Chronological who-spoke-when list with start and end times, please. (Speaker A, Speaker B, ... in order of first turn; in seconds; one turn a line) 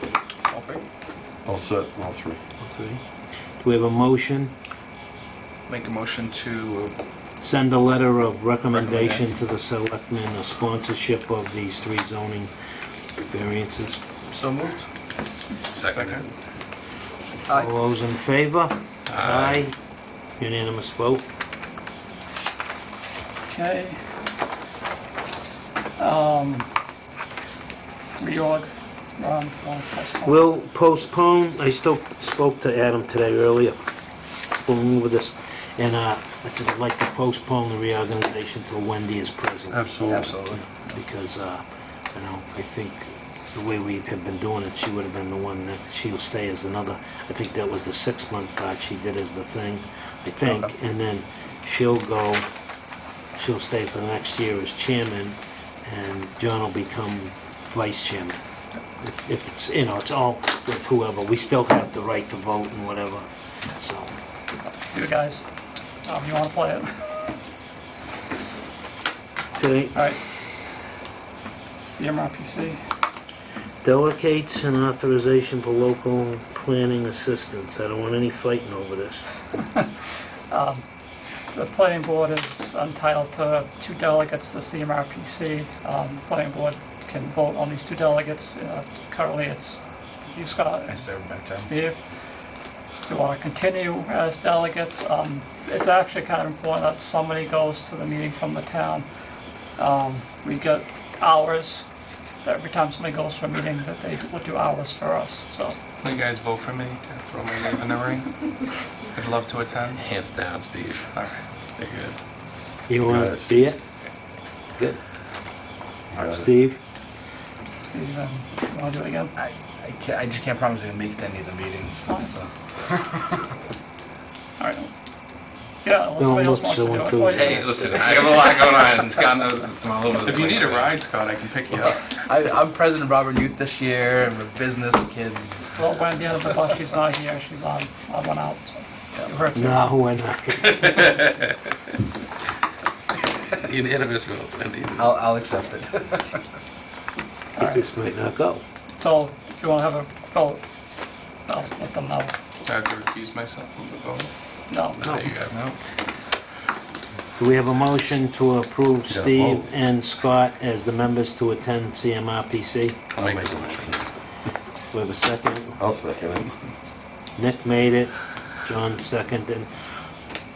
Speaker A: 0.5-0.8
Speaker B: 1.4-2.4
Speaker C: 2.6-3.0
Speaker C: 3.6-4.5
Speaker D: 5.7-6.9
Speaker C: 7.4-12.5
Speaker D: 8.7-9.1
Speaker C: 13.2-14.0
Speaker A: 14.3-14.8
Speaker E: 15.7-16.3
Speaker D: 15.8-16.3
Speaker C: 17.5-19.8
Speaker E: 19.1-19.6
Speaker C: 20.4-21.2
Speaker F: 23.5-24.0
Speaker F: 26.0-26.7
Speaker F: 28.2-30.4
Speaker C: 30.2-33.8
Speaker C: 34.6-52.5
Speaker D: 39.7-40.2
Speaker A: 40.0-40.7
Speaker C: 53.4-58.4
Speaker C: 59.0-63.2
Speaker C: 63.8-64.1
Speaker F: 64.9-65.4
Speaker F: 66.0-67.0
Speaker C: 69.5-70.0
Speaker F: 69.9-70.2
Speaker F: 71.8-72.8
Speaker C: 73.8-79.2
Speaker F: 80.5-80.8
Speaker F: 81.5-92.0
Speaker A: 90.9-91.7
Speaker F: 93.0-99.1
Speaker F: 99.8-101.8
Speaker F: 102.4-105.8
Speaker D: 106.0-110.0
Speaker E: 109.9-111.1
Speaker D: 111.1-111.4
Speaker E: 111.8-112.2
Speaker C: 112.9-113.8
Speaker B: 113.0-113.6
Speaker B: 116.2-116.5
Speaker C: 116.2-116.8
Speaker F: 117.8-119.3
Speaker A: 119.4-123.4
Speaker F: 122.0-122.4
Speaker F: 124.6-124.9
Speaker F: 125.8-127.7
Speaker C: 126.2-127.9
Speaker E: 127.3-131.0
Speaker A: 127.9-128.1
Speaker D: 130.2-132.1
Speaker A: 132.2-135.7
Speaker F: 135.7-139.9
Speaker C: 139.5-141.0
Speaker E: 140.9-141.3
Speaker E: 143.5-145.2
Speaker A: 144.9-146.4
Speaker F: 147.6-147.8
Speaker C: 147.6-148.6
Speaker F: 149.0-150.6
Speaker F: 151.5-152.3
Speaker D: 152.6-154.3
Speaker F: 154.7-155.3
Speaker E: 155.0-155.6
Speaker A: 155.5-155.8
Speaker C: 157.4-163.0
Speaker B: 159.1-159.6
Speaker B: 163.2-164.0
Speaker E: 163.2-164.1
Speaker C: 164.9-165.8
Speaker B: 165.8-166.5
Speaker C: 167.4-169.7